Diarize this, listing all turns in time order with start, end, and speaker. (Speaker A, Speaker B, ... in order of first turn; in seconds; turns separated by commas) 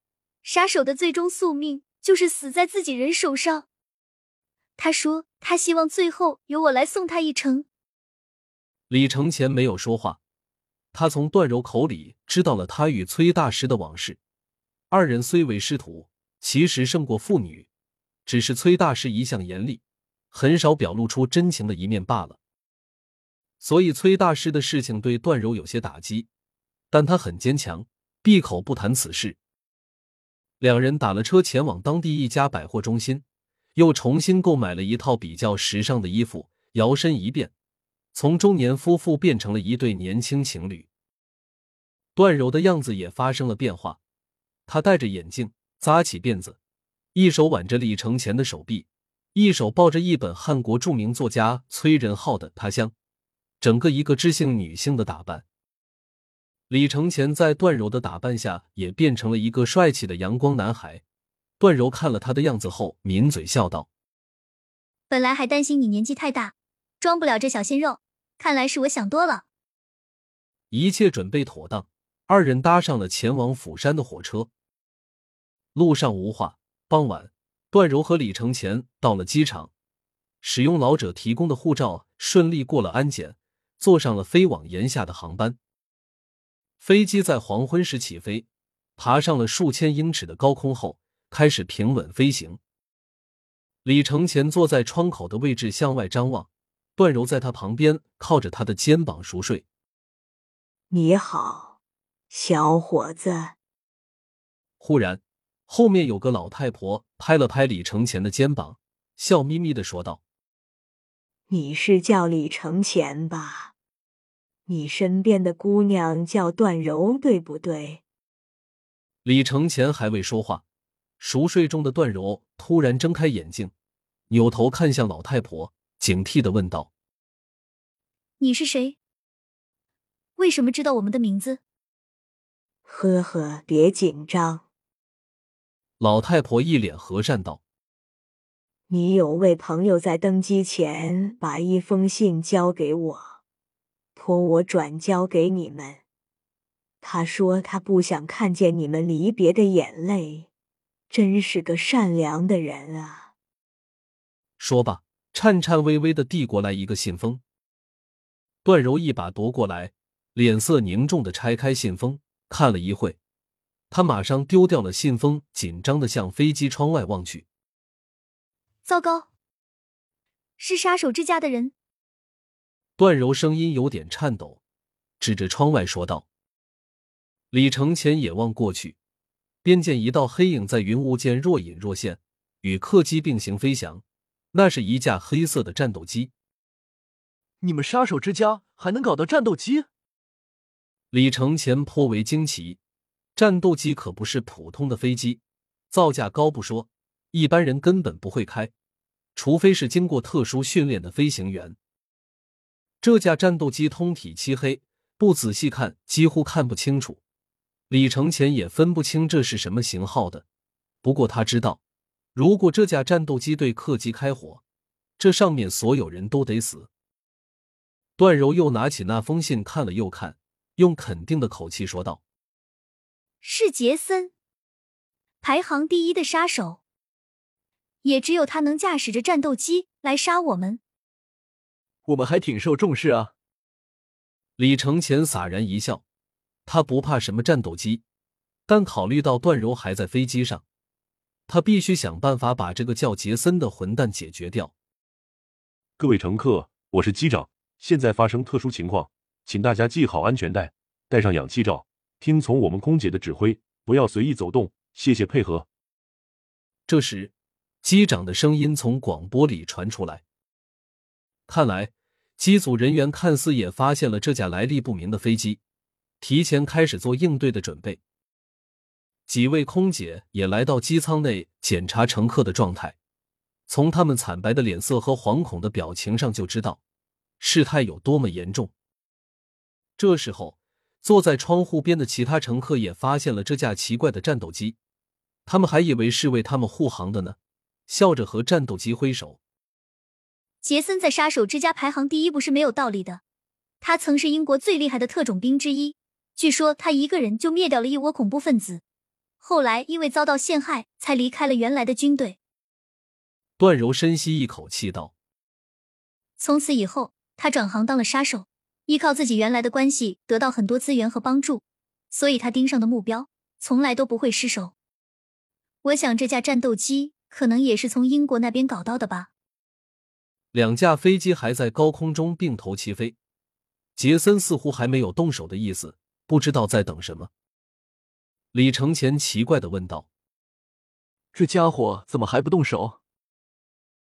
Speaker A: 0.4-3.6, Speaker A: 4.8-7.7, Speaker B: 8.9-10.2, Speaker B: 10.9-14.2, Speaker B: 14.9-17.7, Speaker B: 18.3-22.4, Speaker B: 23.6-26.3, Speaker B: 26.9-29.4, Speaker B: 30.6-33.2, Speaker B: 33.8-37.5, Speaker B: 38.1-40.9, Speaker B: 42.2-44.0, Speaker B: 44.7-46.6, Speaker B: 47.1-52.9, Speaker B: 53.6-55.5, Speaker B: 56.7-61.0, Speaker B: 61.6-63.9, Speaker A: 65.1-69.4, Speaker B: 70.7-74.5, Speaker B: 75.8-79.7, Speaker B: 80.4-85.6, Speaker B: 86.8-92.6, Speaker B: 93.8-99.6, Speaker C: 100.9-101.8, Speaker C: 102.3-103.5, Speaker B: 104.8-110.2, Speaker C: 111.5-113.7, Speaker C: 114.7-118.0, Speaker B: 119.2-120.6, Speaker B: 121.2-123.7, Speaker B: 124.3-126.9, Speaker A: 128.4-129.0, Speaker A: 130.4-131.6, Speaker C: 132.9-134.6, Speaker B: 136.0-137.6, Speaker C: 138.9-143.4, Speaker C: 144.2-146.0, Speaker C: 147.0-150.5, Speaker C: 151.1-153.3, Speaker B: 154.6-157.4, Speaker B: 158.6-163.2, Speaker B: 163.9-167.4, Speaker A: 168.8-169.3, Speaker A: 170.6-171.7, Speaker B: 173.0-174.6, Speaker B: 175.2-176.3, Speaker B: 177.5-179.0, Speaker B: 179.6-184.0, Speaker B: 184.5-186.3, Speaker D: 187.6-189.9, Speaker B: 191.1-192.8, Speaker B: 193.4-195.4, Speaker B: 195.9-198.7, Speaker B: 199.4-201.8, Speaker B: 203.0-207.2, Speaker B: 207.9-210.4, Speaker B: 211.0-211.8, Speaker B: 212.3-214.6, Speaker B: 215.2-216.9, Speaker B: 218.2-222.2, Speaker A: 223.4-224.3, Speaker A: 225.4-226.8, Speaker A: 228.0-230.8, Speaker D: 232.1-233.3, Speaker B: 234.6-236.0, Speaker B: 236.7-238.0, Speaker B: 238.7-240.6, Speaker B: 241.5-244.7, Speaker E: 246.0-255.7, Speaker B: 256.9-257.3, Speaker B: 257.8-260.2, Speaker B: 261.5-265.6, Speaker B: 266.2-268.0, Speaker B: 269.3-272.9, Speaker B: 273.7-276.8, Speaker B: 277.4-278.7, Speaker B: 280.0-284.8, Speaker B: 285.5-287.4, Speaker B: 287.9-289.4, Speaker A: 290.6-293.2, Speaker A: 293.8-298.8, Speaker A: 299.4-302.4, Speaker B: 303.6-305.1, Speaker A: 306.4-314.7, Speaker A: 315.8-319.3, Speaker B: 320.5-323.1, Speaker B: 324.0-327.3, Speaker B: 328.5-330.1, Speaker D: 331.3-333.0